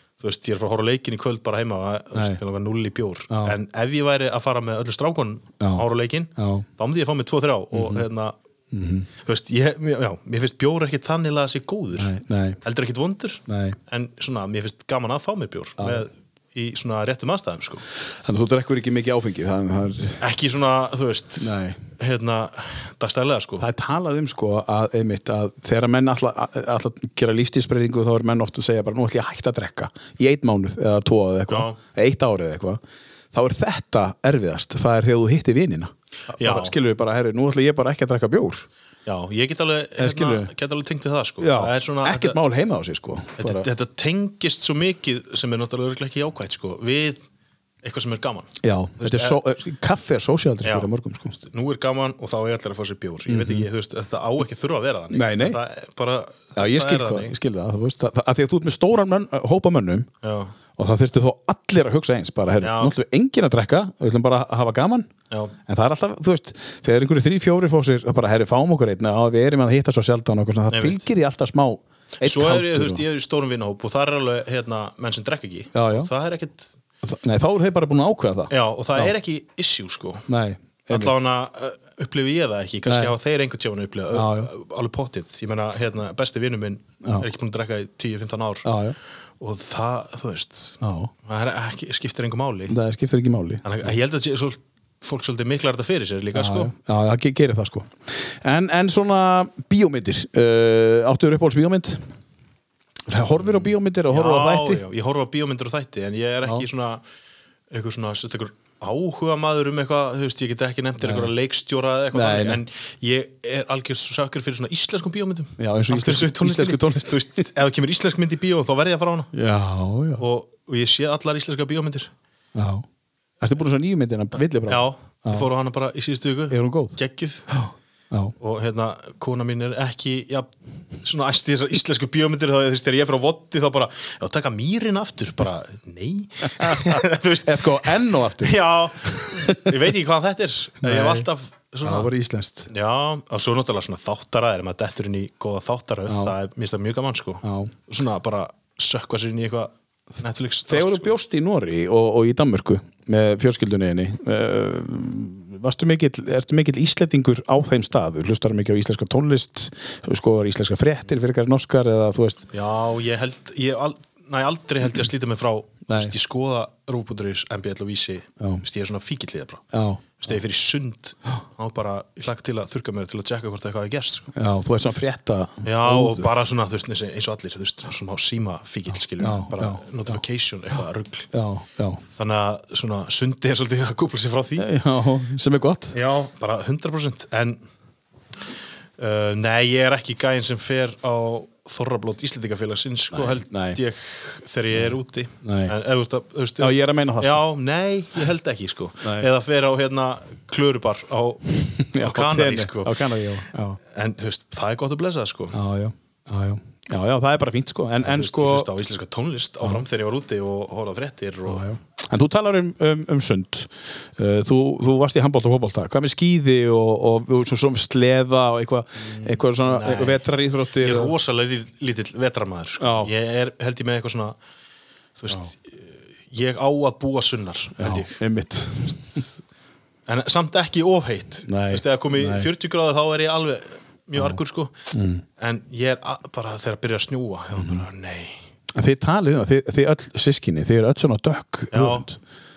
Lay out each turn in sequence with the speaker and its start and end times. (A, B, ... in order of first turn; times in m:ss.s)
0:00.2-0:08.3 A
0:02.1-0:02.4 B
0:03.3-0:03.6 B
0:05.6-0:06.6 B
0:07.7-0:08.0 B
0:08.7-0:09.1 B
0:09.2-0:17.8 A
0:12.0-0:12.6 B
0:13.5-0:13.8 B
0:15.8-0:16.1 B
0:18.1-0:20.2 B
0:20.2-0:23.6 A
0:21.4-0:21.8 B
0:23.6-0:32.8 B
0:31.5-0:31.8 A
0:33.3-0:38.7 B
0:36.3-0:36.8 A
0:39.0-0:42.4 A
0:40.0-0:40.5 B
0:41.4-0:43.7 B
0:43.4-0:47.2 A
0:47.8-0:49.4 A
0:48.6-0:51.4 B
0:50.6-0:57.3 A
0:53.3-0:53.7 B
0:55.1-0:55.6 B
0:56.6-1:00.1 B
1:00.2-1:00.5 A
1:00.8-1:05.1 B
1:02.6-1:03.0 A
1:05.6-1:13.0 B
1:10.7-1:11.1 A
1:12.2-1:16.8 A
1:15.7-1:16.1 B
1:17.0-1:19.1 B
1:18.5-1:20.3 A
1:20.3-1:21.2 B
1:20.9-1:28.7 A
1:22.8-1:23.1 B
1:24.1-1:24.5 B
1:28.6-1:29.0 B
1:29.4-1:32.8 A
1:30.8-1:31.1 B
1:32.7-1:33.9 B
1:33.6-1:36.7 A
1:36.3-1:42.1 B
1:43.1-1:44.8 B
1:43.4-1:47.0 A
1:47.7-1:59.3 A
1:51.0-1:51.3 B
1:52.1-1:52.6 B
1:55.6-1:57.5 B
1:59.3-2:00.2 B
2:00.2-2:02.1 A
2:02.5-2:02.8 B
2:03.4-2:05.5 B
2:04.7-2:07.5 A
2:06.5-2:07.0 B
2:07.5-2:08.3 B
2:08.4-2:10.5 A
2:11.0-2:22.1 A
2:16.5-2:19.8 B
2:20.8-2:21.3 B
2:21.8-2:22.7 B
2:22.7-2:31.1 A
2:26.1-2:26.4 B
2:27.4-2:27.7 B
2:30.7-2:42.4 B
2:42.5-2:49.6 A
2:45.9-2:46.1 B
2:49.7-2:50.3 B
2:50.2-2:54.3 A
2:54.3-2:56.3 B
2:55.6-3:01.3 A
2:59.2-3:00.2 B
3:01.3-3:02.0 B
3:02.1-3:04.7 A
3:04.6-3:06.0 B
3:05.9-3:07.6 A
3:09.0-3:23.0 A
3:13.1-3:13.8 B
3:14.7-3:15.7 B
3:16.6-3:17.4 B
3:19.0-3:19.3 B
3:21.6-3:23.8 B
3:23.9-3:25.6 A
3:25.5-3:28.7 B
3:28.0-3:31.6 A
3:31.5-3:41.1 B
3:39.0-3:40.2 A
3:40.8-3:44.4 A
3:42.8-3:43.1 B
3:45.2-3:48.2 A
3:47.8-3:49.2 B
3:48.8-3:49.4 A
3:50.1-3:54.7 A
3:51.4-3:52.5 B
3:54.9-3:55.2 B
3:55.4-3:58.4 A
3:57.5-3:57.8 B
3:58.7-4:02.2 B
4:01.7-4:02.1 A